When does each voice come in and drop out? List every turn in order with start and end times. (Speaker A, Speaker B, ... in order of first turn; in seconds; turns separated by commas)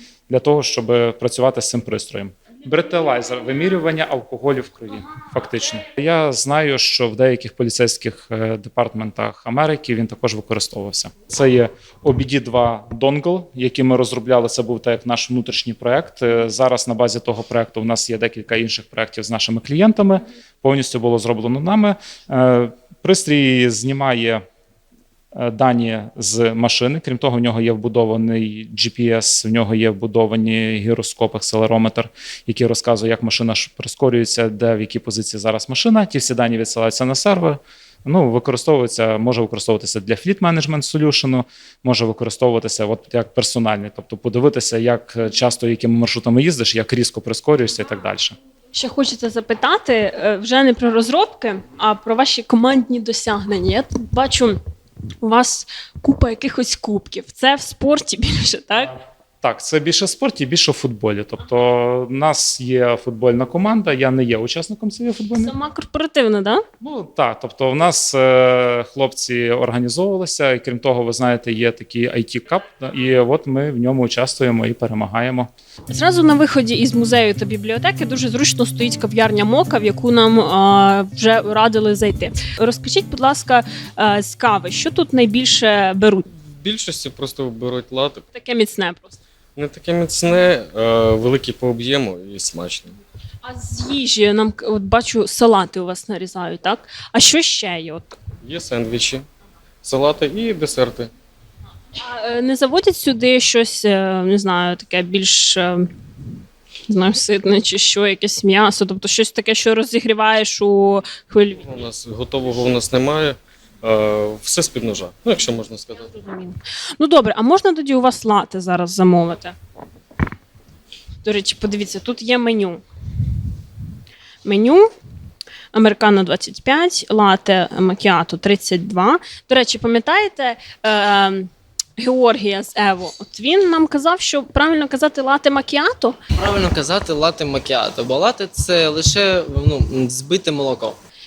Speaker A: 0.3-24.4, Speaker A: 25.4-48.4, Speaker B: 48.7-54.6, Speaker B: 55.2-58.9, Speaker A: 59.4-65.5, Speaker B: 65.4-66.6, Speaker A: 66.8-75.5, Speaker B: 75.9-86.2, Speaker C: 86.6-88.2, Speaker B: 88.3-89.2, Speaker C: 89.6-93.0, Speaker B: 93.4-98.2, Speaker C: 98.5-99.2, Speaker C: 99.8-101.1, Speaker B: 102.0-105.9, Speaker B: 106.9-111.6, Speaker C: 111.6-116.0, Speaker B: 116.1-119.5, Speaker B: 121.2-122.8, Speaker B: 124.4-124.9, Speaker B: 125.7-136.2, Speaker D: 136.4-141.0